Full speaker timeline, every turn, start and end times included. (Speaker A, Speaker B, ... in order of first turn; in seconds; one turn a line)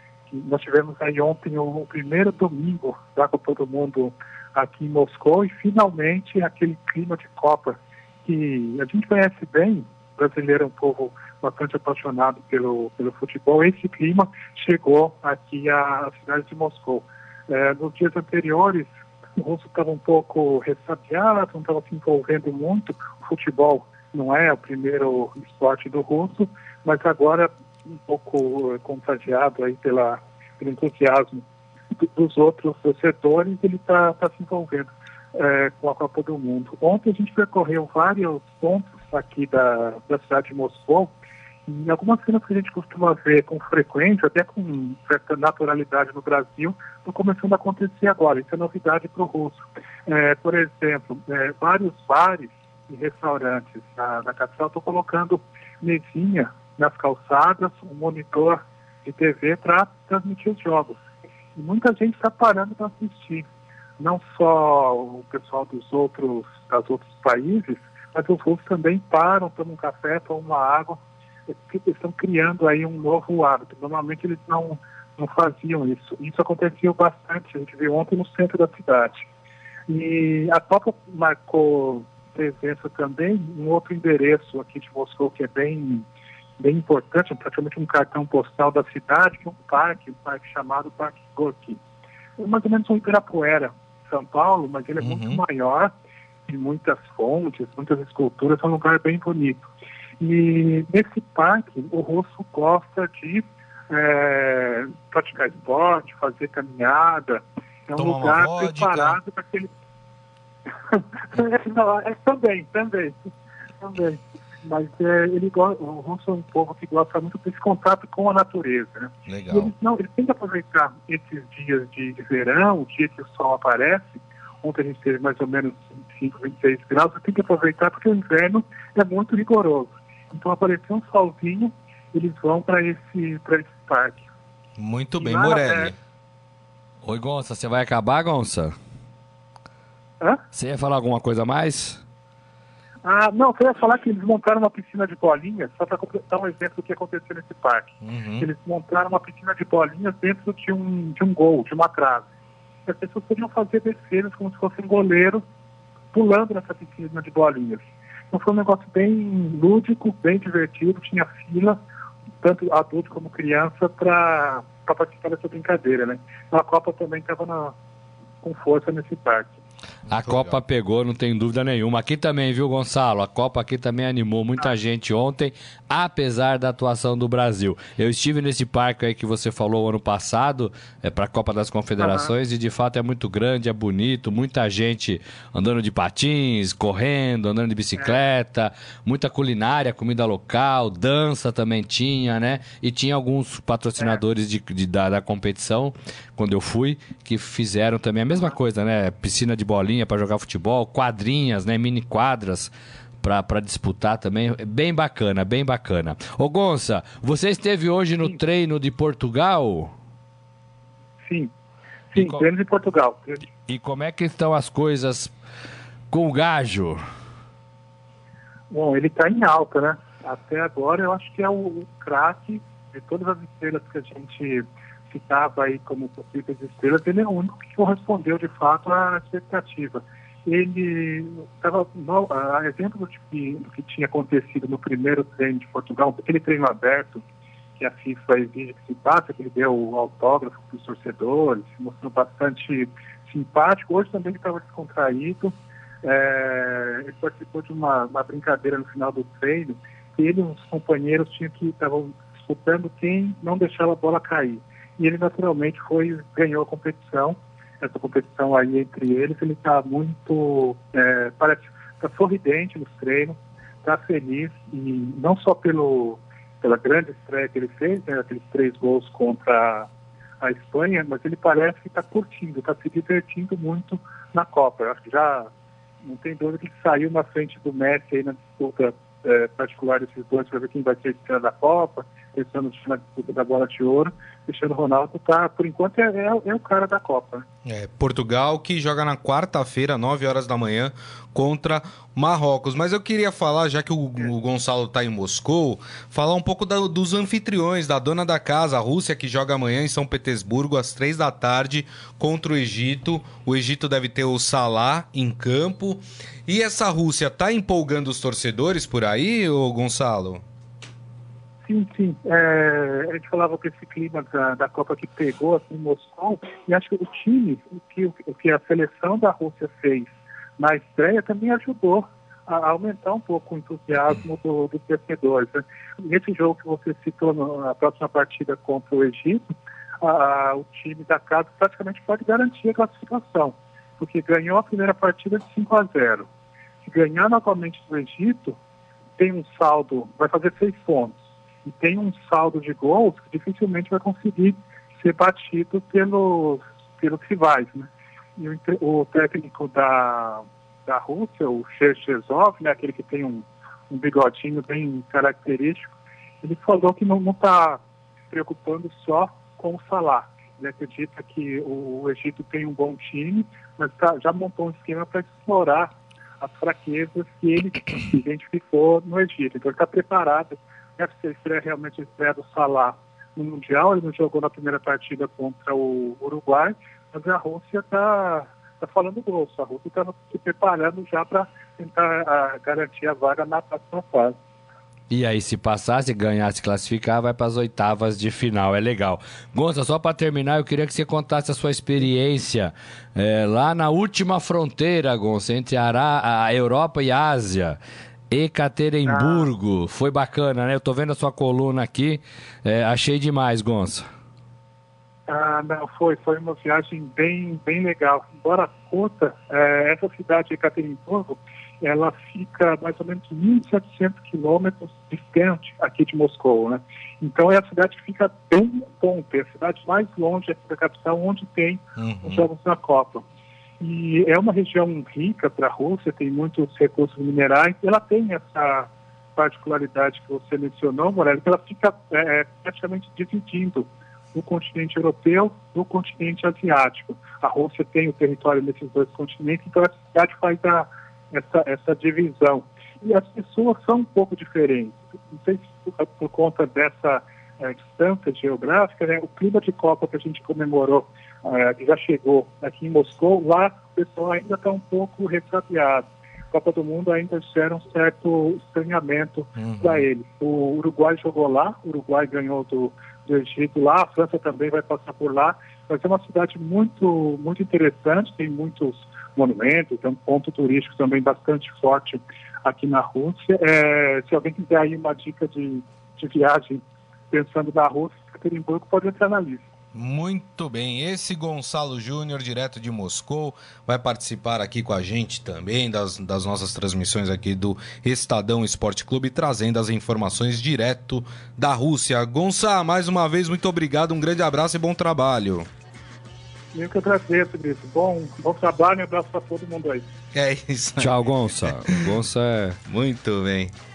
Speaker A: 0.3-31.4
Speaker A: 32.0-41.1
Speaker A: 41.7-61.0
Speaker A: 61.5-63.5
Speaker A: 64.0-79.2
Speaker A: 79.9-86.0
Speaker A: 86.6-91.8
Speaker A: 92.4-95.9
Speaker B: 95.0-95.4
Speaker A: 96.5-99.7
Speaker A: 100.2-109.7
Speaker B: 108.0-109.2
Speaker A: 110.9-134.2
Speaker B: 119.3-119.7
Speaker B: 134.8-135.9
Speaker A: 135.2-135.9
Speaker C: 137.0-138.7
Speaker C: 140.5-142.0
Speaker A: 143.0-152.2
Speaker B: 148.0-148.5
Speaker A: 152.8-155.4
Speaker A: 156.1-161.8
Speaker A: 162.4-167.7
Speaker A: 168.4-169.5
Speaker C: 170.1-209.9
Speaker B: 170.1-170.6
Speaker A: 182.0-182.3
Speaker A: 211.2-211.5
Speaker A: 212.1-213.5
Speaker C: 212.2-212.4
Speaker C: 213.7-215.3
Speaker C: 216.1-217.0
Speaker A: 218.7-237.2
Speaker A: 237.8-269.9
Speaker A: 270.4-275.5
Speaker A: 276.0-287.4
Speaker B: 287.6-310.4
Speaker A: 311.6-336.3
Speaker A: 336.8-338.6
Speaker A: 339.2-384.4
Speaker C: 385.1-397.8
Speaker C: 398.3-404.1
Speaker A: 399.1-399.5
Speaker A: 405.3-423.2
Speaker B: 422.0-422.5
Speaker A: 423.8-479.6
Speaker B: 459.6-460.0
Speaker B: 479.9-495.7
Speaker A: 496.7-500.1
Speaker B: 500.3-502.1
Speaker C: 501.0-502.8
Speaker B: 502.9-503.7